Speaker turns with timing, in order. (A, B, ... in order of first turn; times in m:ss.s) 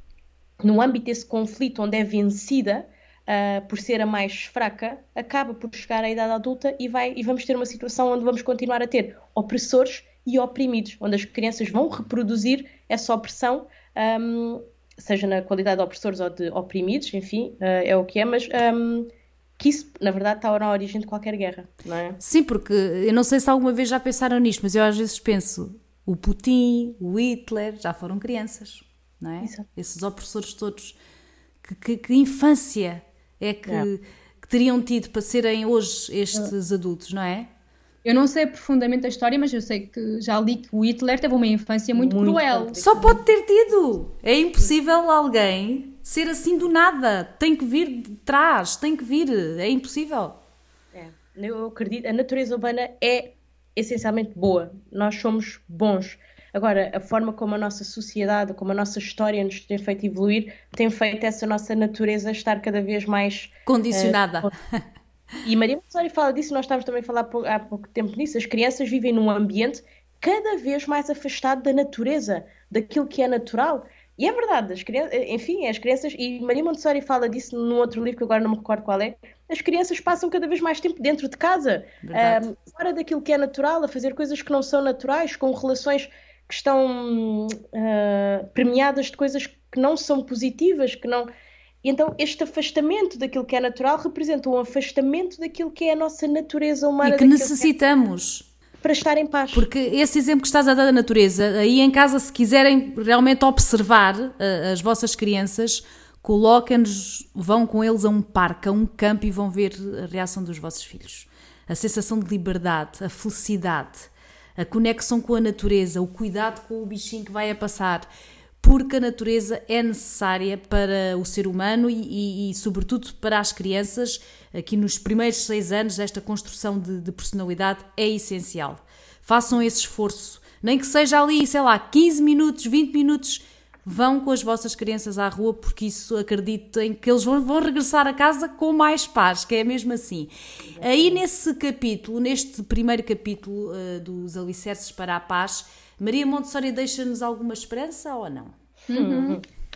0:00.6-0:22.2 A
0:22.2-0:31.0 B
0:31.6-0:37.5 B
0:38.0-0:42.8 C
0:41.9-0:43.2 A
0:42.8-0:50.4 B
0:50.9-1:04.5 A
1:03.7-1:04.5 B
1:05.4-1:31.3 A
1:22.0-1:22.4 B
1:31.8-1:37.7 A
1:37.0-1:38.5 B
1:38.8-1:39.7 A
1:39.5-1:58.1 B
1:58.6-2:28.5 B
2:20.8-2:21.2 A
2:28.9-2:29.4 C
2:28.9-2:29.4 A